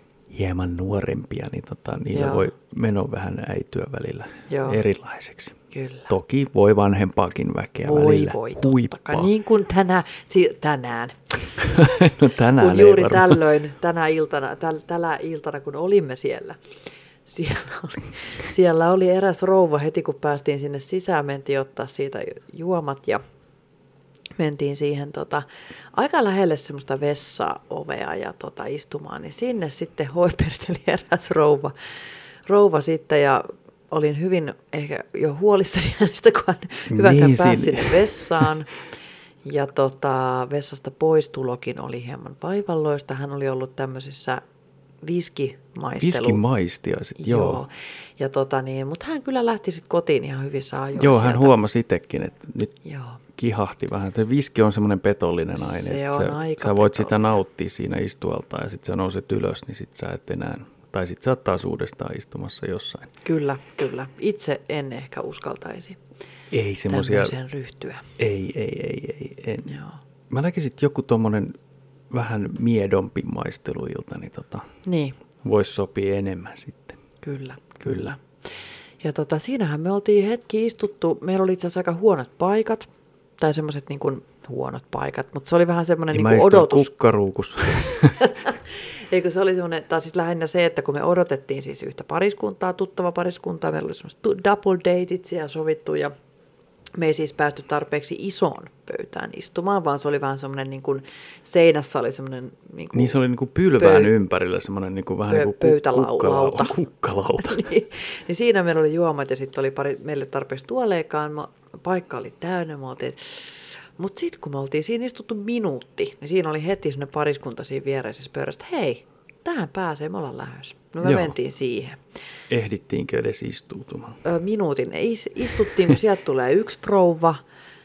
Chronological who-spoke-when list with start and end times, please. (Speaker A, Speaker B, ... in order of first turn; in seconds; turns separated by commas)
Speaker A: 0.3-5.6, Speaker B: 2.1-2.5, Speaker B: 4.5-4.8, Speaker B: 5.7-6.1, Speaker A: 6.1-9.3, Speaker B: 7.8-11.9, Speaker A: 11.6-13.4, Speaker B: 12.5-16.6, Speaker B: 17.3-23.2, Speaker B: 24.4-38.8, Speaker A: 36.9-38.5, Speaker B: 39.4-44.4, Speaker B: 45.0-46.4, Speaker A: 46.0-47.6, Speaker B: 47.2-51.6, Speaker A: 51.0-52.7, Speaker B: 52.8-53.2, Speaker A: 53.4-63.1, Speaker B: 55.6-57.3, Speaker B: 63.2-66.0, Speaker A: 66.5-67.4, Speaker B: 66.9-68.1, Speaker A: 68.2-69.7, Speaker B: 69.7-70.0, Speaker A: 70.3-71.6, Speaker A: 72.1-74.7, Speaker B: 74.8-75.2, Speaker A: 75.4-77.0, Speaker B: 77.2-78.2, Speaker A: 77.8-78.2, Speaker B: 79.0-82.9, Speaker B: 83.4-87.0, Speaker A: 86.1-88.3, Speaker B: 88.2-96.1, Speaker B: 97.0-103.2, Speaker A: 102.9-107.6, Speaker B: 103.7-104.1, Speaker B: 105.3-106.8, Speaker B: 107.4-122.0, Speaker A: 121.0-121.3, Speaker A: 122.5-124.2, Speaker B: 124.2-127.4